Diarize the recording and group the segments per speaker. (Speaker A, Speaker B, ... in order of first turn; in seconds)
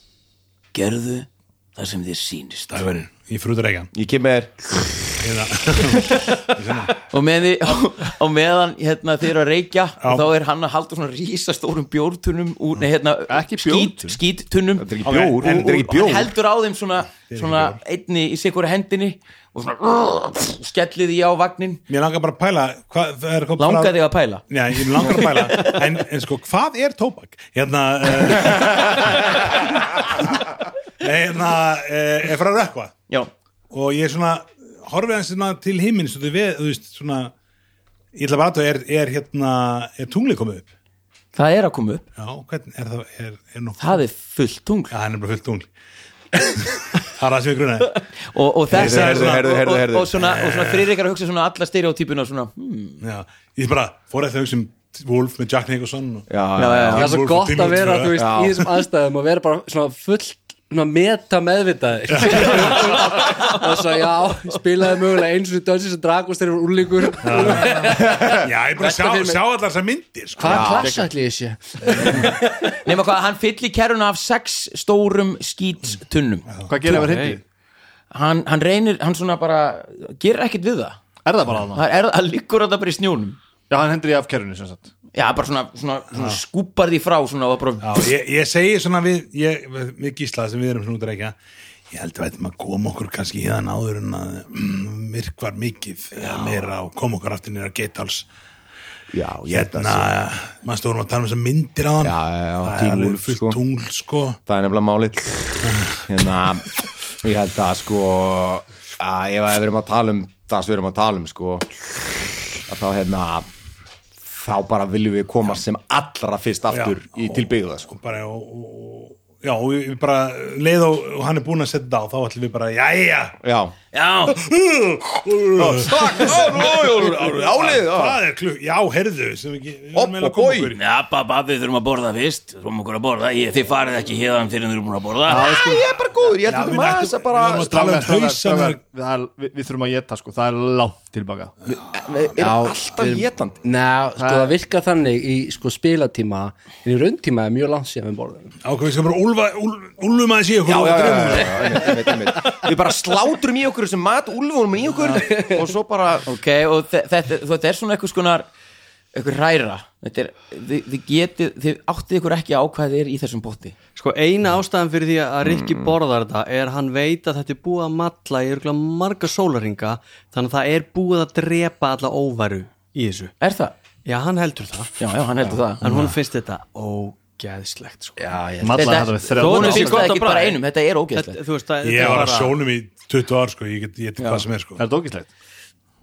Speaker A: 0.7-2.8, 7.1-14.9, 15.8-21.8, 23.6-25.8, 41.3-42.1, 43.8-44.9, 48.3-53.0, 56.5-57.1, 72.6-76.5, 78.1-81.0, 81.7-83.4, 85.1-88.1, 123.9-124.4, 130.7-135.6, 156.3-158.5, 159.1-163.8, 173.4-173.7, 175.0-175.8, 178.7-181.4, 184.2-184.4
Speaker B: 2.7-3.9, 5.2-7.0, 15.0-16.2, 17.3-17.8, 21.9-32.9, 33.7-37.3, 38.1-40.7, 42.2-43.8, 44.9-45.7, 46.5-48.0, 48.7-49.5, 50.2-50.9, 53.0-56.2, 56.9-58.2, 62.1-63.0, 67.2-70.8, 71.9-72.3, 76.5-77.0, 87.8-91.3, 91.9-98.3, 99.5-104.4, 105.7-106.0, 116.7-123.3, 124.3-130.8, 136.4-138.8, 148.6-152.1, 175.8-176.2, 181.8-184.8
Speaker C: 3.9-4.6, 14.8-16.3, 48.7-50.1, 56.3-57.1, 58.1-58.6, 68.0-68.5, 70.4-71.0, 96.2-96.6, 99.1-100.1, 102.0-103.6, 104.5-105.5, 106.1-106.7, 107.2-111.7, 112.7-113.5, 114.2-117.9, 123.4-123.7, 125.6-128.2, 129.9-130.7, 135.4-137.8, 141.7-143.6, 150.7-156.3, 165.4-165.9
Speaker D: 13.3-14.2, 76.7-77.4, 81.2-81.8, 83.7-84.9, 135.2-135.9, 137.5-141.5, 144.2-144.5, 178.6-180.1, 184.8-185.3
Speaker E: 57.0-69.4, 70.4-72.4, 142.4-148.5, 178.2-179.3
Speaker F: 76.9-77.4, 163.9-173.3, 174.0-174.9, 175.8-178.3, 179.3-180.6, 181.1-182.6